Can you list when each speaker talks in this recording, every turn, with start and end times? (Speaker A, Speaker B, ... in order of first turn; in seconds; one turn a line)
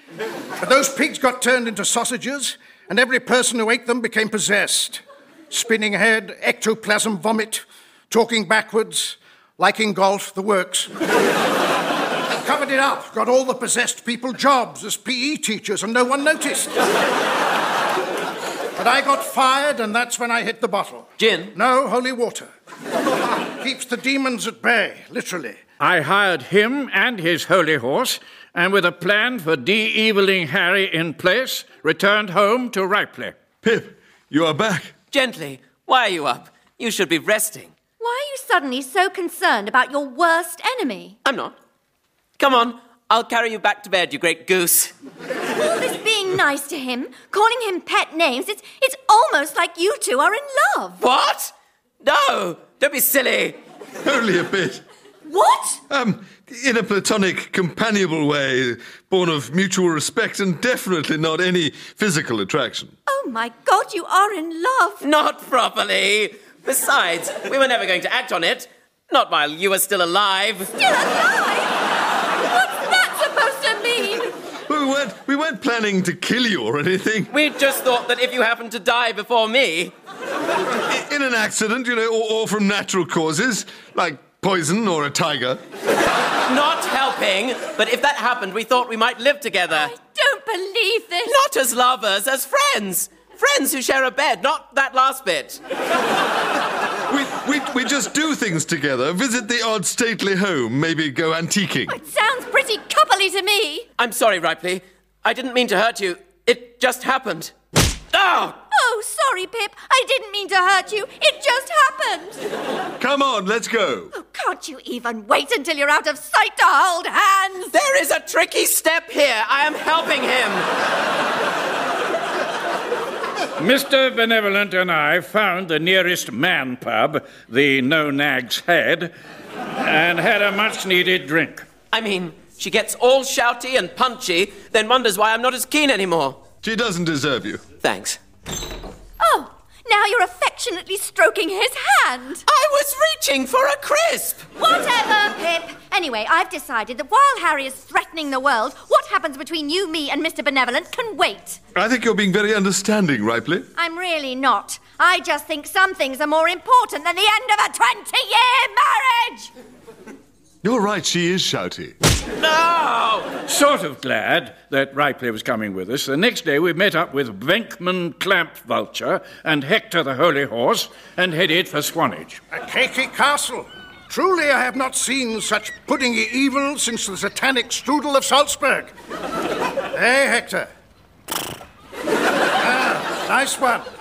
Speaker A: 0.6-10.9
Speaker A: 12.4-16.8
Speaker A: 18.8-22.5
Speaker B: 21.2-21.6
Speaker A: 23.5-25.6
Speaker C: 25.8-33.4
Speaker D: 33.6-34.9
Speaker B: 35.1-37.7
Speaker E: 38.0-41.2
Speaker B: 41.2-41.6
Speaker B: 42.4-44.9
Speaker E: 45.6-51.0
Speaker B: 51.0-53.6
Speaker D: 54.0-54.8
Speaker E: 55.3-55.8
Speaker D: 55.9-63.0
Speaker E: 63.1-65.0
Speaker B: 65.0-70.7
Speaker E: 70.8-74.3
Speaker D: 74.7-77.3
Speaker B: 77.3-79.9
Speaker D: 80.9-85.6
Speaker B: 86.5-89.9
Speaker E: 89.8-91.4
Speaker B: 91.2-95.6
Speaker D: 97.1-102.0
Speaker E: 101.9-103.9
Speaker B: 104.0-107.5
Speaker B: 108.1-108.6
Speaker E: 108.7-112.5
Speaker D: 113.0-114.1
Speaker E: 114.1-117.7
Speaker B: 117.7-120.7
Speaker C: 123.6-129.1
Speaker C: 129.8-131.7
Speaker B: 131.9-136.4
Speaker D: 136.6-137.6
Speaker B: 137.8-138.2
Speaker E: 139.2-142.4
Speaker B: 142.5-144.5
Speaker E: 144.6-151.6
Speaker D: 151.8-153.7
Speaker E: 153.8-159.5
Speaker D: 160.6-162.0
Speaker B: 162.4-163.3
Speaker C: 163.5-172.4
Speaker A: 172.5-178.9
Speaker A: 179.9-180.7
Speaker A: 182.6-183.9